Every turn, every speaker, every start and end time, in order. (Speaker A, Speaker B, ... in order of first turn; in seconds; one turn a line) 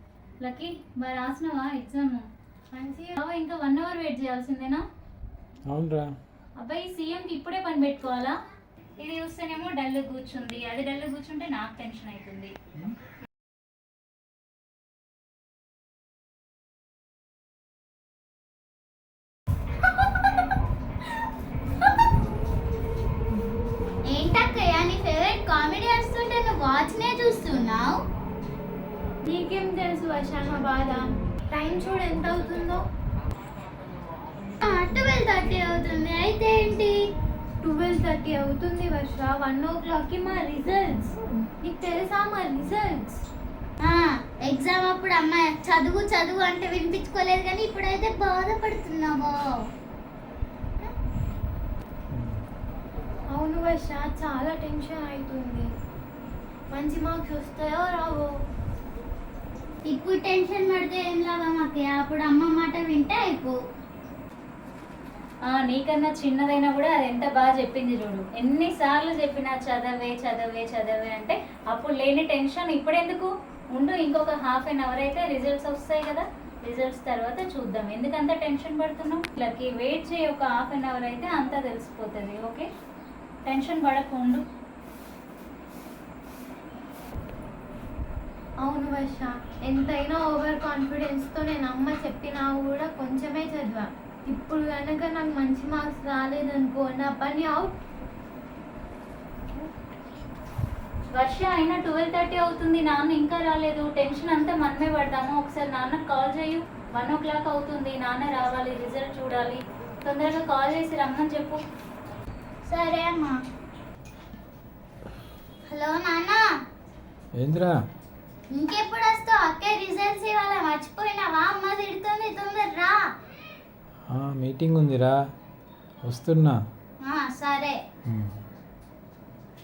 Speaker A: 0.4-2.3
Speaker B: 2.7-3.2
Speaker A: 3.2-4.8
Speaker C: 5.7-6.1
Speaker A: 6.6-8.4
Speaker A: 9.0-12.5
Speaker D: 24.1-28.0
Speaker B: 29.2-32.9
Speaker D: 34.6-37.0
Speaker B: 37.6-43.2
Speaker D: 43.8-49.6
Speaker C: 52.1-52.4
Speaker B: 53.3-55.7
Speaker B: 56.7-58.3
Speaker D: 59.9-63.6
Speaker A: 65.5-82.7
Speaker A: 83.5-84.4
Speaker B: 88.6-97.8
Speaker A: 101.1-111.6
Speaker D: 112.7-113.4
Speaker D: 115.7-116.5
Speaker C: 117.3-117.8
Speaker D: 118.5-123.1
Speaker C: 124.1-125.2
Speaker C: 126.0-126.6
Speaker D: 127.0-127.8
Speaker C: 128.1-128.4